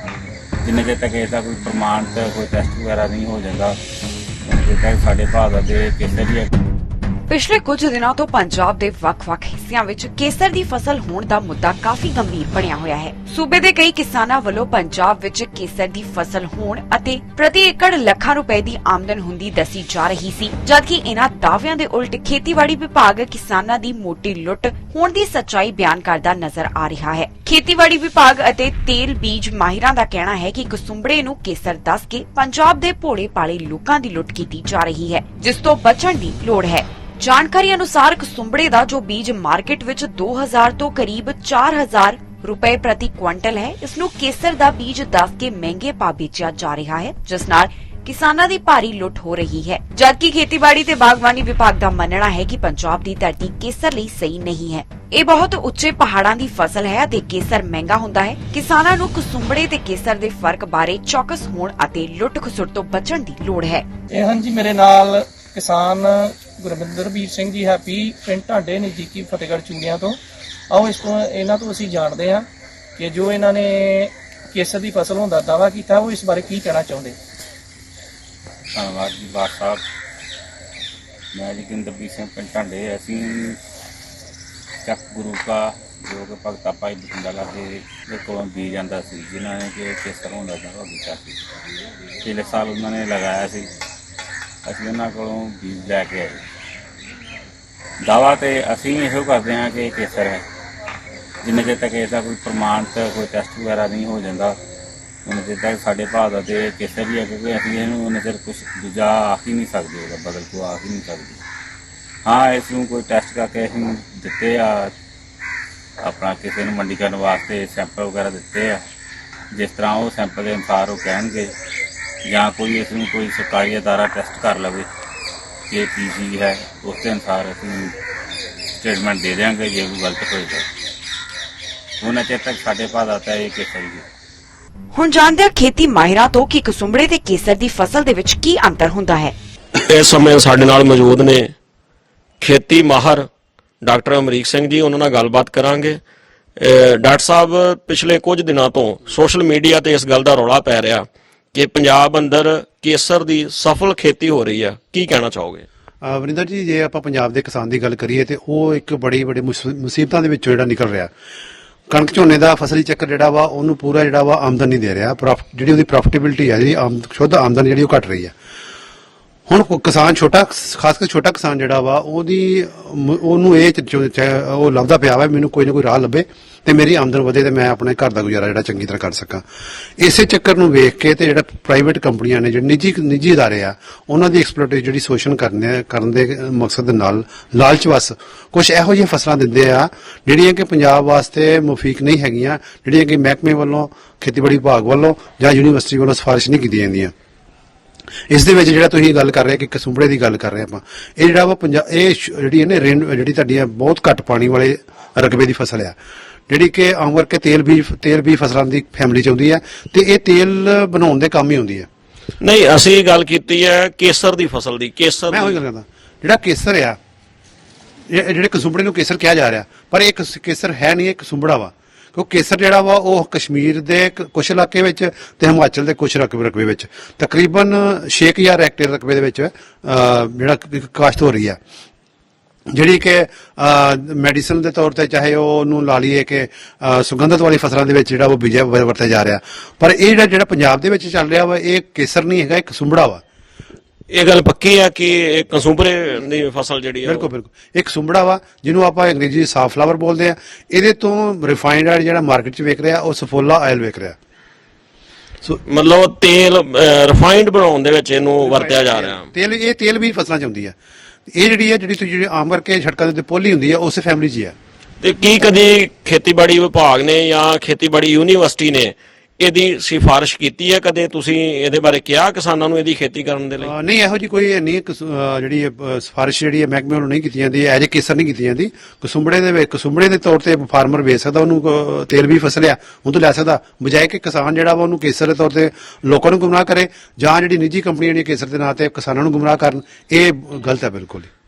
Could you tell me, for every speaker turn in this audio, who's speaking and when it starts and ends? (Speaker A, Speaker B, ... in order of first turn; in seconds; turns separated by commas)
Speaker A: 0.6-3.8, Speaker A: 4.5-6.5, Speaker B: 7.3-63.9, Speaker C: 64.1-70.2, Speaker C: 70.7-72.5, Speaker C: 73.0-77.2, Speaker A: 78.8-79.8, Speaker A: 81.3-83.6, Speaker A: 84.8-91.4, Speaker A: 92.2-93.7, Speaker A: 94.7-96.4, Speaker A: 98.0-100.4, Speaker A: 101.4-104.6, Speaker A: 105.3-111.4, Speaker A: 112.3-114.9, Speaker A: 116.0-118.8, Speaker A: 119.5-121.5, Speaker A: 122.3-124.8, Speaker A: 125.7-127.9, Speaker A: 128.8-130.7, Speaker A: 132.0-134.1, Speaker B: 134.9-139.3, Speaker D: 139.9-141.5, Speaker D: 142.4-143.3, Speaker D: 143.8-146.0, Speaker D: 146.6-155.7, Speaker E: 156.0-161.1, Speaker E: 161.9-168.3, Speaker E: 169.5-179.4, Speaker E: 180.0-197.1, Speaker E: 198.3-206.0, Speaker E: 206.5-211.9, Speaker D: 212.4-215.6, Speaker E: 215.3-217.0, Speaker E: 218.1-231.6, Speaker E: 232.7-243.2, Speaker D: 244.1-247.3, Speaker E: 247.0-254.2, Speaker D: 255.7-259.2, Speaker E: 258.4-260.8, Speaker E: 261.3-264.6, Speaker D: 265.0-273.7, Speaker E: 273.6-291.3